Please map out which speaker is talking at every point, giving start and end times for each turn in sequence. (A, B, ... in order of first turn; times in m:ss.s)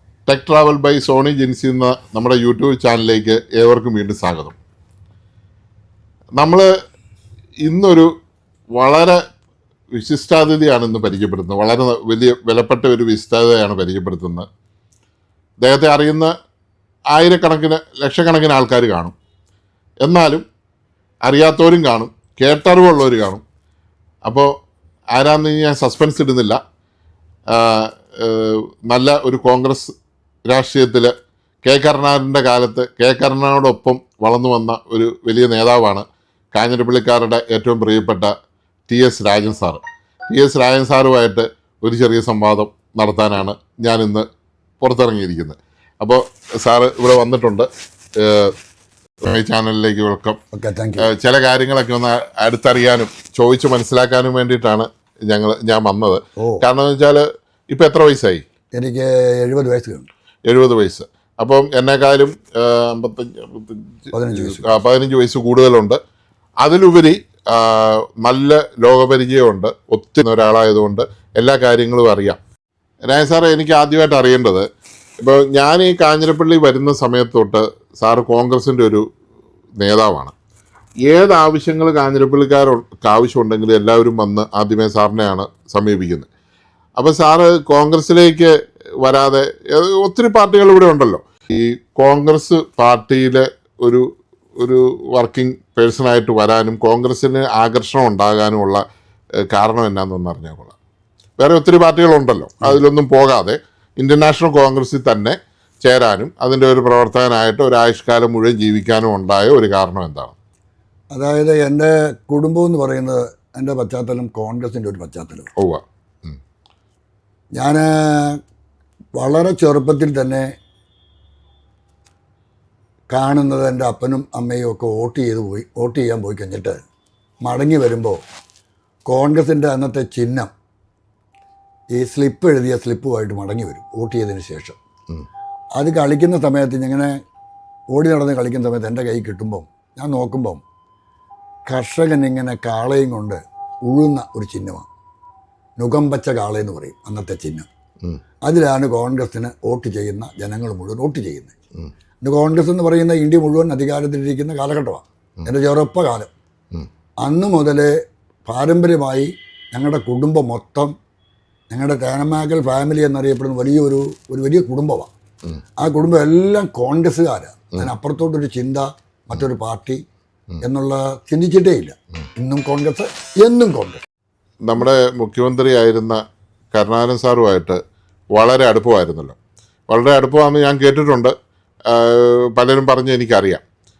0:00.2-0:04.6 A
0:06.4-0:06.7 A
0:07.6-0:08.1 A
0:08.8-0:09.2 A
0:09.9-0:14.5 A
0:15.6-0:16.3 A
0:17.1-0:19.1 A
0:20.0-0:20.4 A
0:21.2-0:23.4 A
0:24.3-0:24.5 A
0:25.1-0:26.6 A
0:27.5-0:29.9 A
0:30.5-0:31.1 A
0:31.6-0:38.3 A
0:38.9-0:44.3 A
0:44.8-0:47.7 A
0:48.2-0:48.5 A
0:49.2-0:50.4 A
0:50.5-0:51.1 B
0:51.0-0:58.4 A
0:56.4-0:56.6 B
0:58.7-1:00.1 B
1:00.5-1:06.0 A
1:04.1-1:04.7 B
1:06.6-1:12.4 A
1:13.1-1:14.6 A
1:15.2-1:19.0 A
1:19.8-1:20.3 A
1:21.1-1:26.3 A
1:27.0-1:34.0 A
1:34.6-1:38.8 A
1:39.5-1:40.8 A
1:41.4-1:50.4 A
1:51.1-1:55.5 B
1:55.6-1:56.4 A
1:57.6-1:58.4 B
1:59.2-2:00.4 B
2:03.1-2:06.8 B
2:07.4-2:08.2 B
2:09.1-2:10.5 B
2:11.9-2:14.8 B
2:15.8-2:17.2 B
2:17.9-2:20.6 B
2:21.7-2:24.9 B
2:25.8-2:27.7 B
2:28.4-2:31.5 B
2:32.2-2:36.3 B
2:37.2-2:37.9 B
2:38.4-2:40.9 B
2:41.7-2:45.1 B
2:45.8-2:50.0 B
2:50.6-2:54.0 B
2:54.6-2:56.2 A
2:56.7-2:57.8 A
2:58.3-2:59.4 A
2:59.9-3:01.3 A
3:01.9-3:03.6 A